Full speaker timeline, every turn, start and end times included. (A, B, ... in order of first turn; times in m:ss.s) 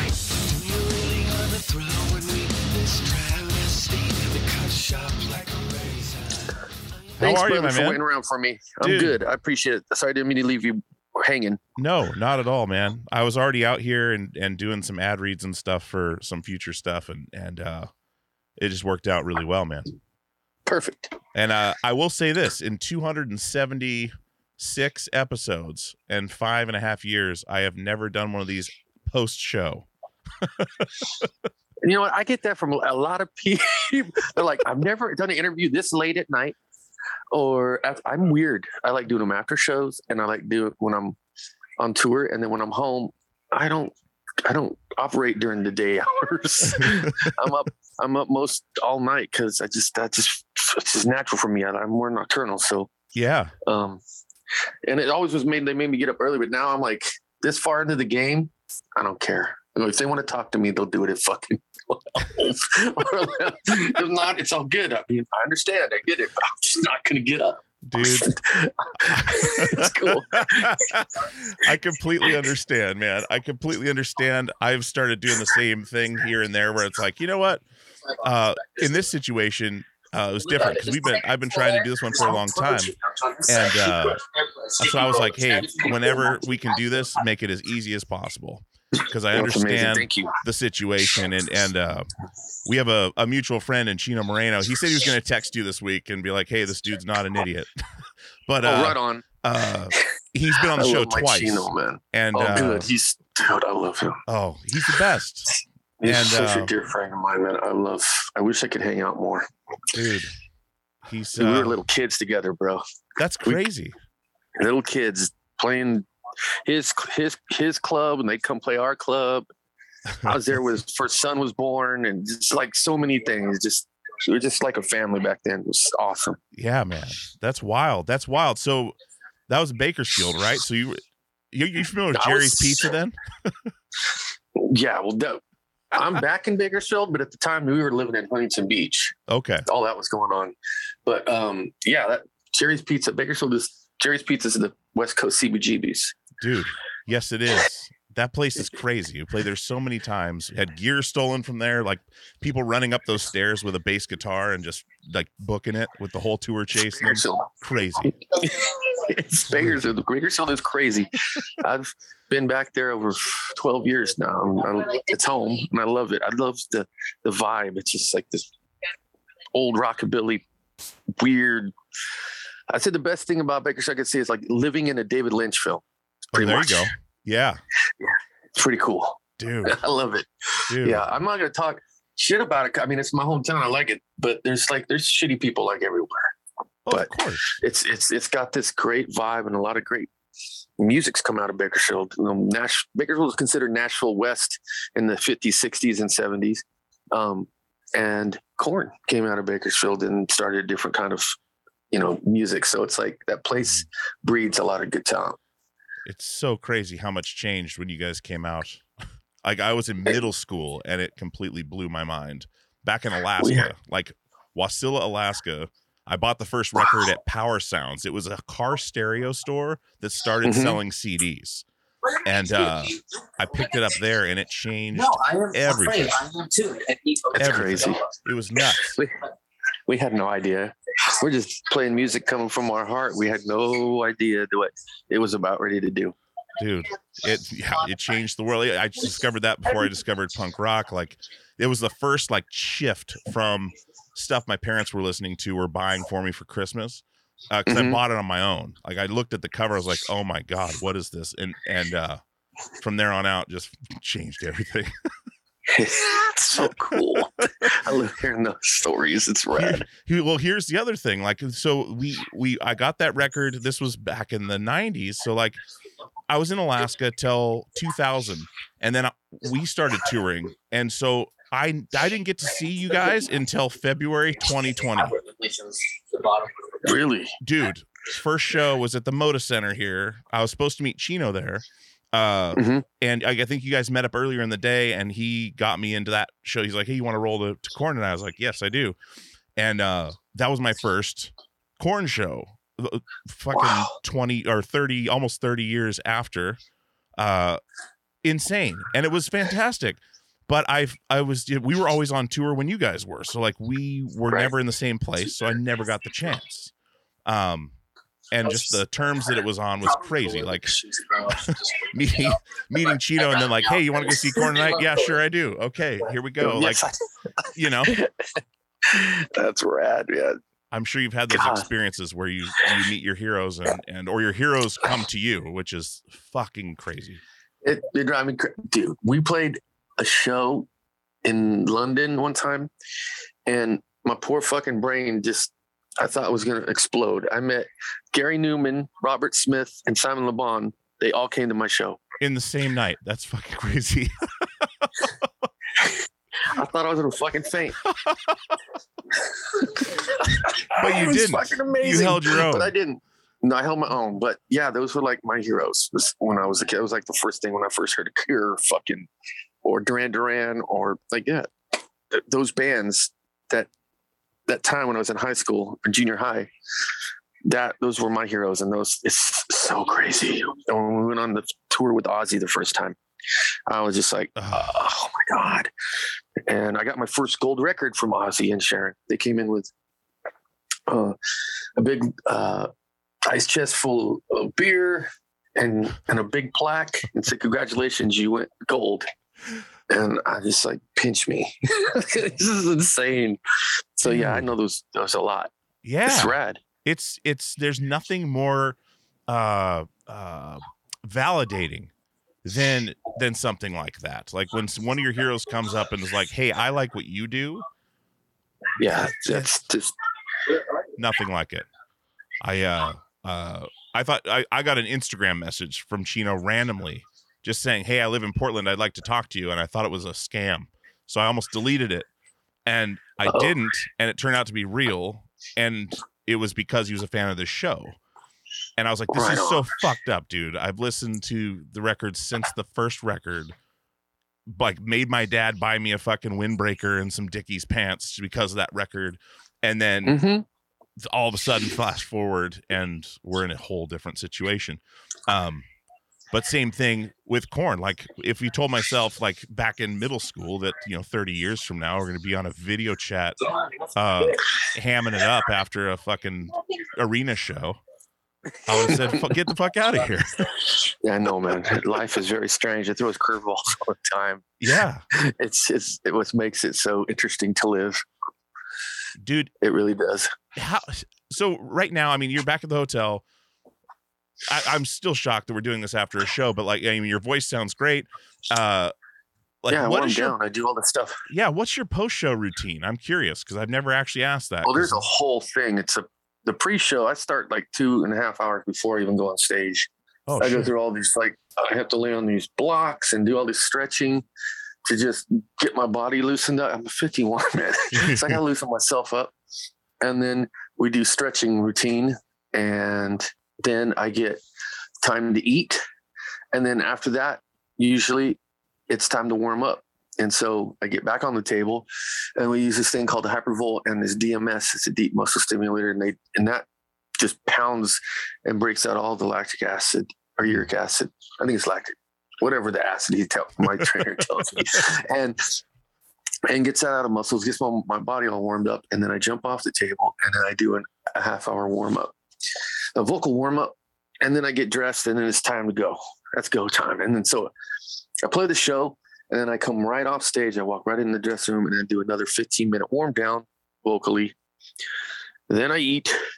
0:00.4-0:06.6 A
0:07.2-0:08.0 B
0:07.2-0:11.6 C
0:08.8-0:09.2 B
0:11.8-0:17.9 B
0:18.6-0:19.9 B
0:20.7-0:21.1 C
0:21.4-0:29.9 B
0:30.4-0:31.1 B
0:31.8-0:36.6 C
0:37.3-0:41.2 C
0:41.8-0:52.9 C
0:46.8-0:47.3 B
0:53.1-0:53.5 B
0:53.6-0:54.0 C
0:54.8-1:10.8 C
1:07.8-1:08.3 B
1:09.1-1:17.6 B
1:18.2-1:22.9 B
1:23.5-1:24.2 B
1:24.8-1:32.1 B
1:29.3-1:30.4 C
1:32.6-1:37.7 B
1:38.5-1:42.9 B
1:38.6-1:39.2 C
1:40.8-1:44.2 C
1:44.3-1:45.5 B
1:46.0-1:49.5 C
1:46.0-1:46.7 B
1:49.9-1:50.3 B
1:51.0-1:51.8 B
1:51.4-1:52.8 C
1:53.2-1:54.0 B
1:54.6-1:56.1 C
1:56.6-1:59.5 C
2:00.2-2:06.4 C
2:06.5-2:09.0 B
2:09.5-2:11.0 B
2:11.5-2:13.5 B
2:12.1-2:12.9 C
2:14.6-2:15.4 C
2:15.9-2:19.1 C
2:19.3-2:19.6 B
2:19.7-2:20.5 C
2:21.1-2:26.2 C
2:26.4-2:38.2 B
2:36.9-2:37.5 C
2:38.0-2:48.5 C
2:39.5-2:39.8 B
2:49.5-2:50.4 C
2:51.2-2:51.7 C
2:52.7-2:56.9 C
2:56.3-2:57.6 B
2:58.0-3:00.3 C
2:59.4-2:59.8 B
3:00.7-3:01.1 B
3:00.8-3:06.3 C
3:06.8-3:07.5 B
3:06.9-3:10.1 C
3:10.8-3:21.4 C
3:21.9-3:25.4 C
3:26.1-3:28.8 B
3:29.4-3:41.6 B
3:33.4-3:33.7 C
3:40.4-3:40.8 C
3:42.2-3:46.2 B
3:46.4-3:46.9 A
3:47.3-3:48.0 C
3:47.4-3:49.0 B
3:49.9-3:56.1 C
3:56.6-4:12.2 B
4:07.7-4:08.0 C
4:12.8-4:14.9 B
4:15.7-4:19.8 C
4:19.6-4:25.6 B
4:26.3-4:35.2 B
4:36.8-4:37.3 C
4:37.4-4:49.0 B
4:42.5-4:42.8 C
4:49.6-4:56.6 B
4:57.2-4:57.6 B
4:58.2-5:06.7 B
5:07.2-5:07.8 B
5:08.3-5:10.8 B
5:10.7-5:11.4 C
5:11.3-5:16.9 B
5:16.4-5:17.0 C
5:17.5-5:18.0 B
5:17.9-5:20.4 C
5:20.7-5:27.2 B
5:21.3-5:21.6 C
5:27.6-5:30.7 C
5:31.2-5:32.7 C
5:33.5-5:42.0 C
5:42.2-5:45.1 B
5:46.5-5:47.8 C
5:48.0-5:48.3 B
5:49.5-5:59.1 C
5:50.8-5:52.7 B
5:59.6-6:01.5 C
6:02.1-6:03.7 C
6:04.5-6:06.5 C
6:07.4-6:13.0 C
6:13.7-6:15.7 C
6:14.4-6:14.7 B
6:16.5-6:19.7 C
6:20.9-6:21.2 C
6:21.8-6:22.7 C
6:23.2-6:29.1 C
6:29.9-6:33.4 C
6:34.0-6:35.5 C
6:34.0-6:34.5 B
6:35.8-6:38.8 B
6:36.1-6:36.6 C
6:39.3-6:41.9 B
6:42.4-6:47.6 B
6:48.8-6:49.9 C
6:48.9-6:49.6 B
6:51.0-6:51.6 B
6:52.4-7:02.1 B
7:02.6-7:08.0 B
7:03.3-7:03.5 C
7:08.8-7:13.6 B
7:09.1-7:09.6 C
7:14.5-7:20.2 B
7:20.1-7:20.4 C
7:21.0-7:25.7 B
7:26.3-7:33.4 B
7:33.9-7:37.8 B
7:38.6-7:40.6 B
7:38.9-7:39.1 C
7:40.9-7:44.4 C
7:44.6-7:45.0 B
7:45.1-7:48.0 C
7:49.2-7:49.5 B
7:49.6-7:50.3 C
7:50.6-7:53.2 B
7:54.4-7:58.9 B
7:59.6-8:00.4 B
7:59.7-8:01.2 C
8:01.3-8:05.0 B
8:04.6-8:09.9 C
8:10.3-8:10.7 B
8:10.4-8:14.2 C
8:14.9-8:19.3 C
8:17.9-8:18.4 B
8:20.0-8:24.4 C
8:25.0-8:25.8 C
8:26.5-8:28.4 C
8:28.9-8:36.6 C
8:37.2-8:45.6 C
8:46.5-8:52.1 C
8:52.9-8:57.5 C
8:58.2-9:04.4 C
9:05.5-9:06.2 C